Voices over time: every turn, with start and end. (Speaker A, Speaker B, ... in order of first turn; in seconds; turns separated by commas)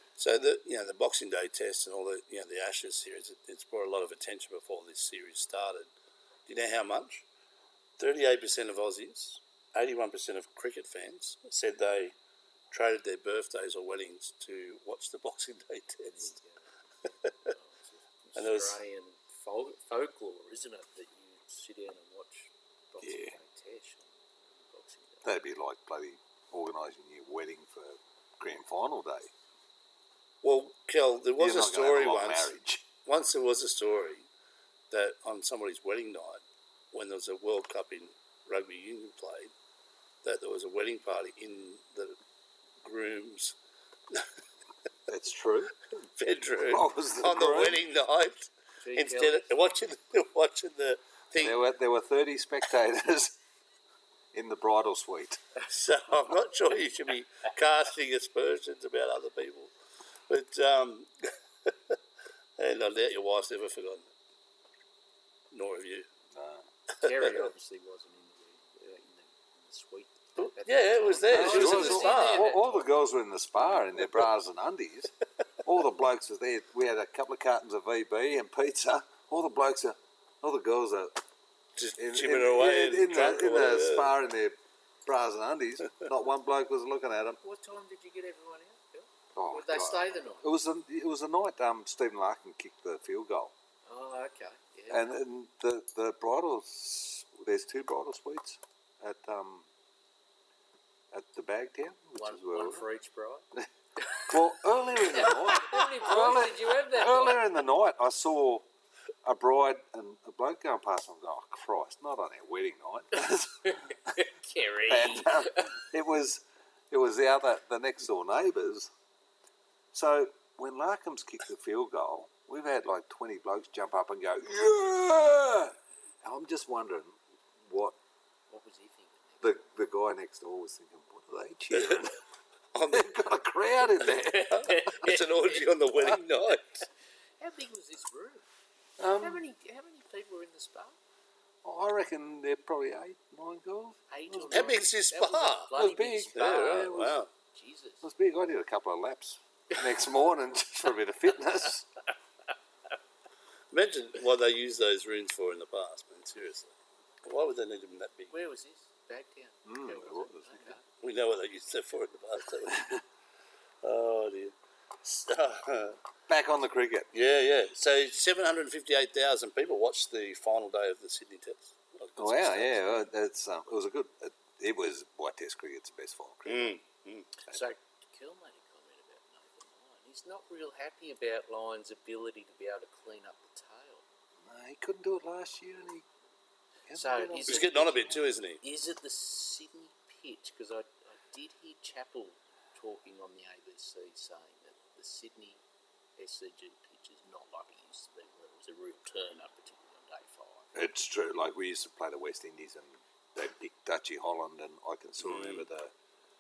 Speaker A: 0.2-5.9, Speaker A: 6.5-7.2, Speaker A: 8.0-12.1, Speaker A: 12.7-16.4, Speaker B: 16.1-16.6, Speaker B: 17.4-25.2, Speaker A: 18.4-18.8, Speaker C: 23.0-23.4, Speaker C: 25.2-29.3, Speaker A: 30.4-32.5, Speaker C: 31.4-32.9, Speaker A: 33.1-34.3, Speaker A: 34.9-39.5, Speaker A: 40.2-42.2, Speaker A: 42.8-43.6, Speaker C: 45.1-45.8, Speaker A: 46.2-51.6, Speaker C: 46.7-47.9, Speaker B: 48.8-49.4, Speaker C: 51.4-53.4, Speaker C: 54.3-55.4, Speaker A: 55.6-59.7, Speaker A: 60.3-62.0, Speaker A: 62.6-64.1, Speaker A: 65.5-66.1, Speaker C: 66.3-66.7, Speaker A: 67.0-67.5, Speaker B: 67.0-72.8, Speaker A: 70.4-72.5, Speaker C: 71.3-81.2, Speaker A: 81.8-84.2, Speaker C: 82.0-87.4, Speaker B: 87.4-90.5, Speaker C: 89.3-93.5, Speaker B: 93.9-95.1, Speaker C: 94.9-99.7, Speaker C: 101.1-102.8, Speaker B: 102.2-103.5, Speaker C: 104.3-108.7, Speaker B: 105.1-107.4, Speaker C: 109.2-113.9, Speaker B: 113.7-115.7, Speaker C: 114.9-118.9, Speaker C: 119.9-128.0, Speaker B: 128.5-129.6, Speaker C: 129.4-132.2, Speaker A: 131.7-132.1, Speaker A: 132.7-133.1, Speaker C: 132.9-134.6, Speaker B: 134.1-135.6, Speaker A: 134.5-136.8, Speaker B: 137.4-138.5, Speaker C: 139.0-139.4, Speaker B: 139.1-141.0, Speaker C: 141.6-144.7, Speaker B: 144.1-147.0, Speaker A: 144.5-145.7, Speaker C: 145.8-147.2, Speaker A: 146.3-147.3, Speaker B: 147.5-148.0, Speaker C: 148.0-151.9, Speaker A: 153.7-158.3, Speaker B: 158.3-160.8, Speaker C: 159.7-160.8, Speaker A: 161.0-163.0, Speaker A: 163.8-166.0, Speaker C: 166.3-167.1, Speaker A: 167.1-172.9, Speaker C: 172.2-176.8, Speaker A: 176.5-177.3, Speaker B: 177.5-184.0, Speaker C: 184.4-186.1, Speaker C: 186.9-188.2, Speaker B: 186.9-195.6, Speaker A: 187.5-188.6, Speaker B: 196.2-200.7, Speaker C: 200.7-205.9, Speaker A: 205.2-205.7